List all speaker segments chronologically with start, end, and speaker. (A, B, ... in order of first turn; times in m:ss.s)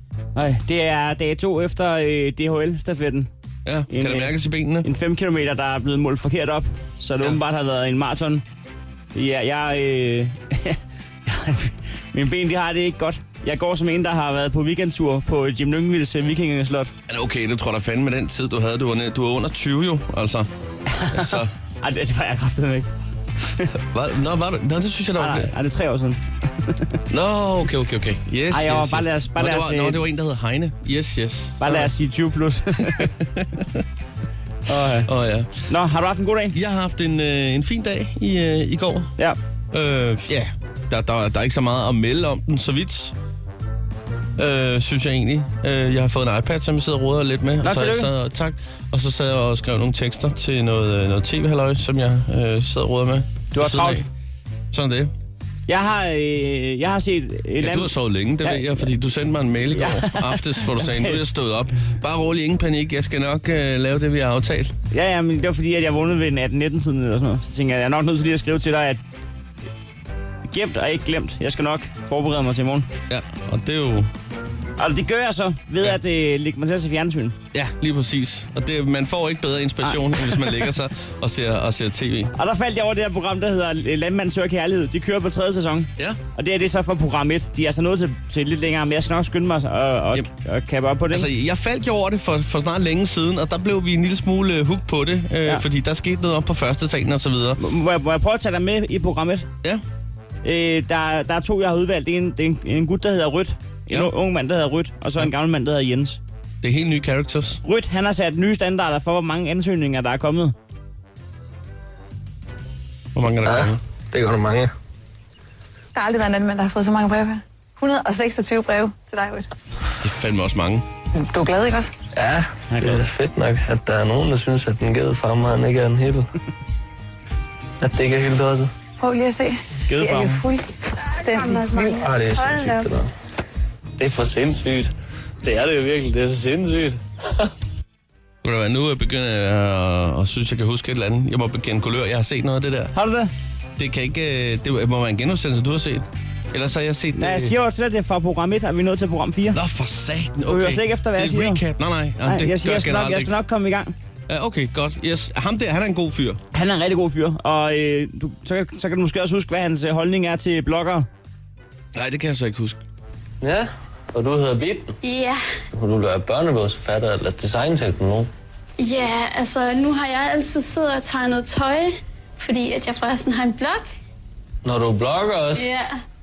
0:00.4-0:03.3 A
0:03.6-0:04.9 B
0:03.9-0:08.4 A
0:09.1-0:16.9 A
0:17.1-0:20.5 B
0:20.9-0:22.9 A
0:21.1-0:21.5 B
0:23.8-0:25.5 B
0:25.2-0:27.0 A
0:27.1-0:31.9 B
0:28.5-0:30.0 A
0:31.6-0:33.1 A
0:32.8-0:33.8 B
0:34.7-0:35.1 A
0:35.1-0:35.6 B
0:35.7-0:36.6 A
0:36.5-0:39.1 B
0:39.7-0:43.2 B
0:44.4-0:54.1 B
0:47.6-0:48.1 A
0:53.5-0:54.0 A
0:54.7-0:55.1 B
0:55.7-0:58.7 A
0:57.6-1:04.8 B
0:59.7-1:01.2 A
1:04.9-1:09.0 A
1:10.5-1:12.9 A
1:13.1-1:14.1 B
1:14.8-1:17.4 A
1:17.5-1:22.3 B
1:19.8-1:20.7 A
1:22.4-1:31.3 A
1:31.1-1:37.6 B
1:37.6-1:39.5 A
1:40.4-1:46.2 A
1:46.6-1:47.6 B
1:47.6-1:50.5 A
1:53.1-1:53.8 B
1:53.4-1:54.7 C
1:56.0-1:59.5 D
2:00.0-2:00.9 B
2:01.2-2:01.9 D
2:02.2-2:06.3 C
2:02.7-2:03.0 A
2:07.8-2:08.7 C
2:09.0-2:12.7 D
2:09.9-2:10.4 A
2:11.6-2:13.1 C
2:14.0-2:14.9 C
2:15.4-2:17.5 C
2:18.4-2:22.9 B
2:23.0-2:23.3 A
2:23.8-2:27.6 B
2:27.2-2:29.6 A
2:29.5-2:33.4 B
2:30.5-2:31.6 A
2:32.2-2:34.0 A
2:34.3-2:36.4 B
2:36.5-2:41.1 A
2:42.0-2:42.8 B
2:43.4-2:45.0 C
2:45.0-2:45.4 E
2:45.8-2:48.3 C
2:48.8-2:53.9 E
2:54.6-2:55.7 C
2:55.5-2:56.0 E